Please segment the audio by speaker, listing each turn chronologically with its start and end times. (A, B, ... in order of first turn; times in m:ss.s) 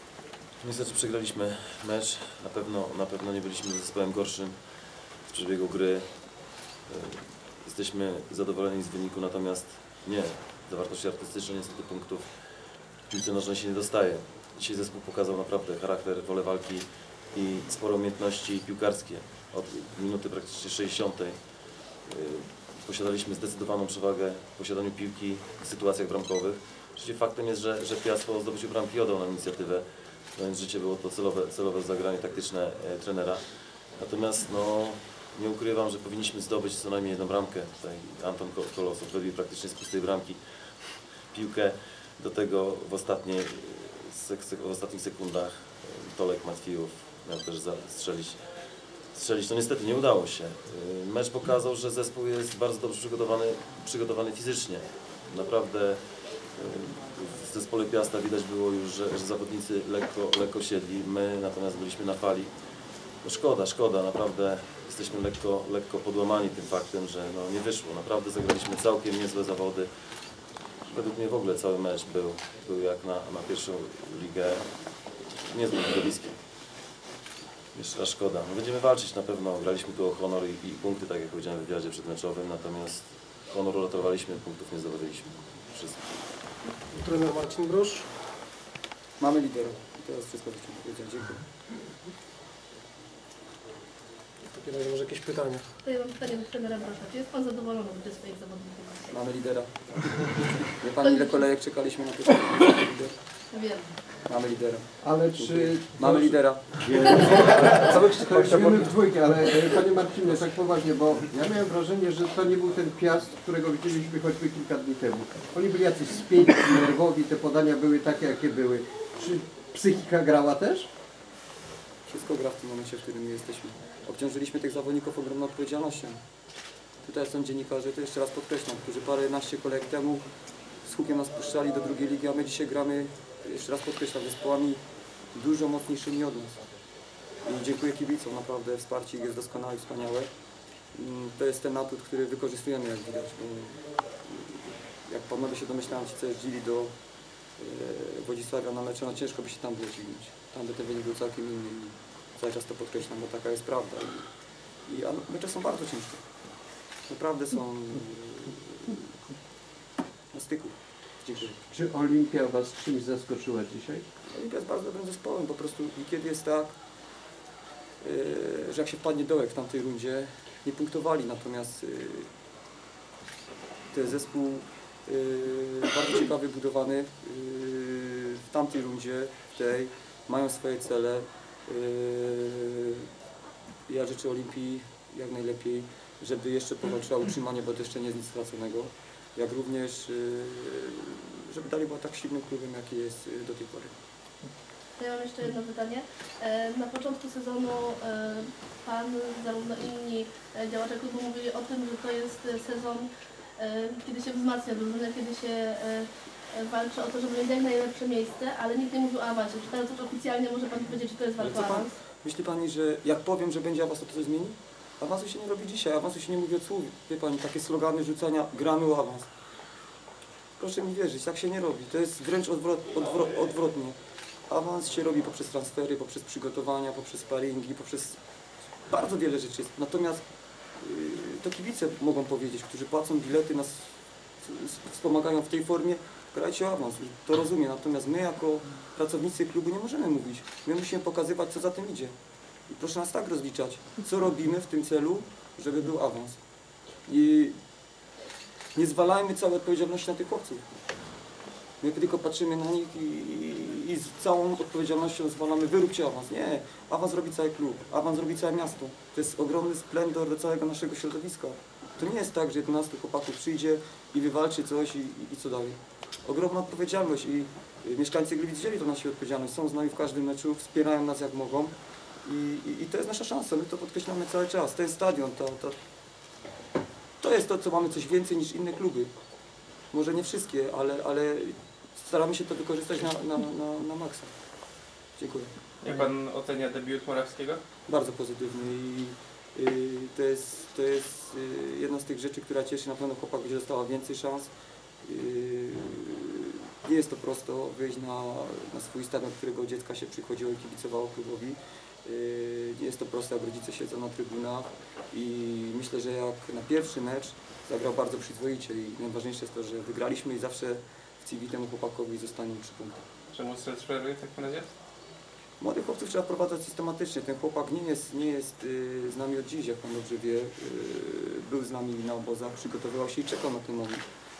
0:00.6-1:09.9 A
1:10.8-1:16.4 A
1:17.7-1:26.1 A
1:26.9-1:28.1 B
1:29.2-1:31.5 C
1:34.5-1:35.7 B
1:35.8-1:39.3 D
1:39.1-1:43.4 C
1:41.0-1:41.5 D
1:43.5-1:44.1 D
1:44.2-1:47.7 C
1:45.0-2:00.9 E
2:02.0-2:06.2 C
2:07.0-2:10.3 C
2:10.8-2:16.7 C
2:17.4-2:20.3 C
2:20.9-2:27.0 C
2:27.6-2:34.3 C
2:34.8-2:36.2 C
2:37.0-2:39.1 C
2:40.3-2:41.6 C
2:41.6-2:44.1 E
2:44.3-2:46.8 C
2:48.0-2:52.3 C
2:53.9-3:03.1 C
3:03.9-3:13.9 C
3:15.0-3:31.9 D
3:31.4-3:39.3 C
3:40.6-3:44.0 C
3:44.5-3:48.2 C
3:48.9-4:02.1 C
4:02.6-4:06.4 C
4:07.0-4:07.6 C
4:08.7-4:10.6 C
4:11.8-4:35.8 C
4:37.2-4:39.1 C
4:39.9-4:44.3 C
4:45.1-4:45.5 C
4:45.8-4:47.6 F
4:47.9-4:54.5 C
4:55.0-5:13.0 C
5:13.3-5:14.7 F
5:15.6-5:24.0 C